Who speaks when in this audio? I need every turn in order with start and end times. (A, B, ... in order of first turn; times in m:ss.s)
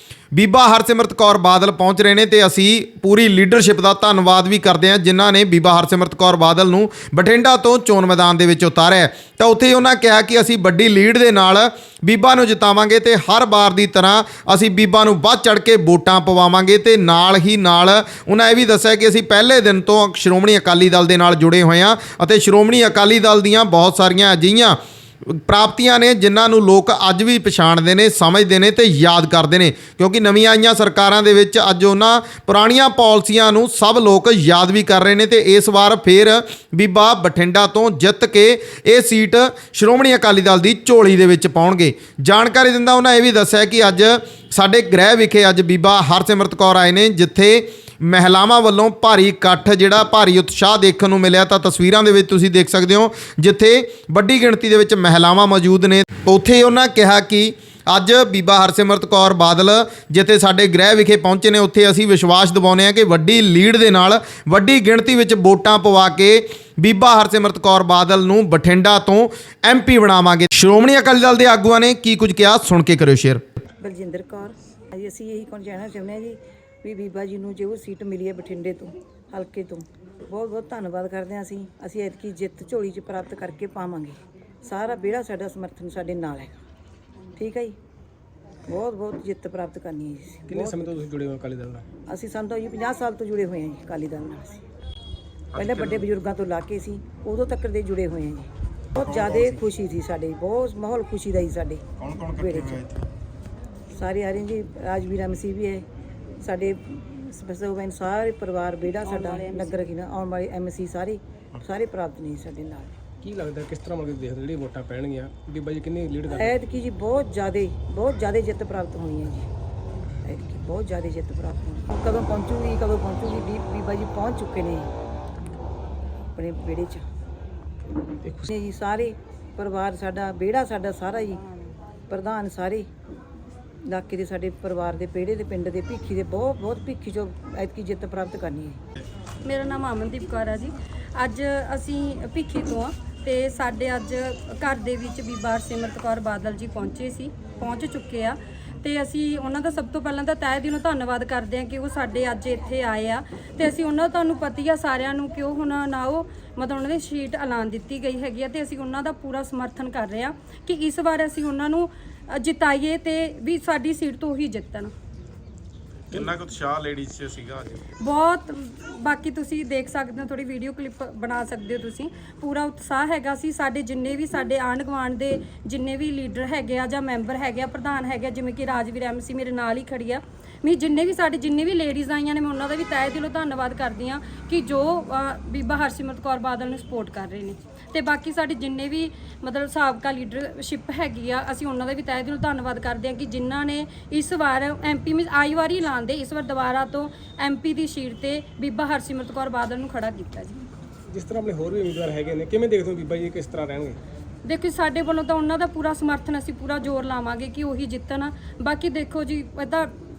0:00.3-1:13.4 A
1:13.8-1:26.6 B
1:27.4-1:27.8 B
1:28.7-1:31.0 B
1:30.5-1:31.8 C
1:32.1-1:34.6 B
1:35.5-1:42.8 B
1:42.0-1:43.1 D
1:43.9-1:45.8 B
1:46.4-1:52.9 B
1:53.2-1:56.6 C
1:56.3-1:59.5 B
2:00.2-2:04.9 B
2:06.4-2:07.0 B
2:08.4-2:11.4 B
2:12.1-2:12.9 B
2:13.8-2:18.8 B
2:19.4-2:44.9 E
2:46.1-2:47.8 D
2:48.0-3:20.6 E
3:21.1-3:24.0 C
3:24.4-3:29.9 E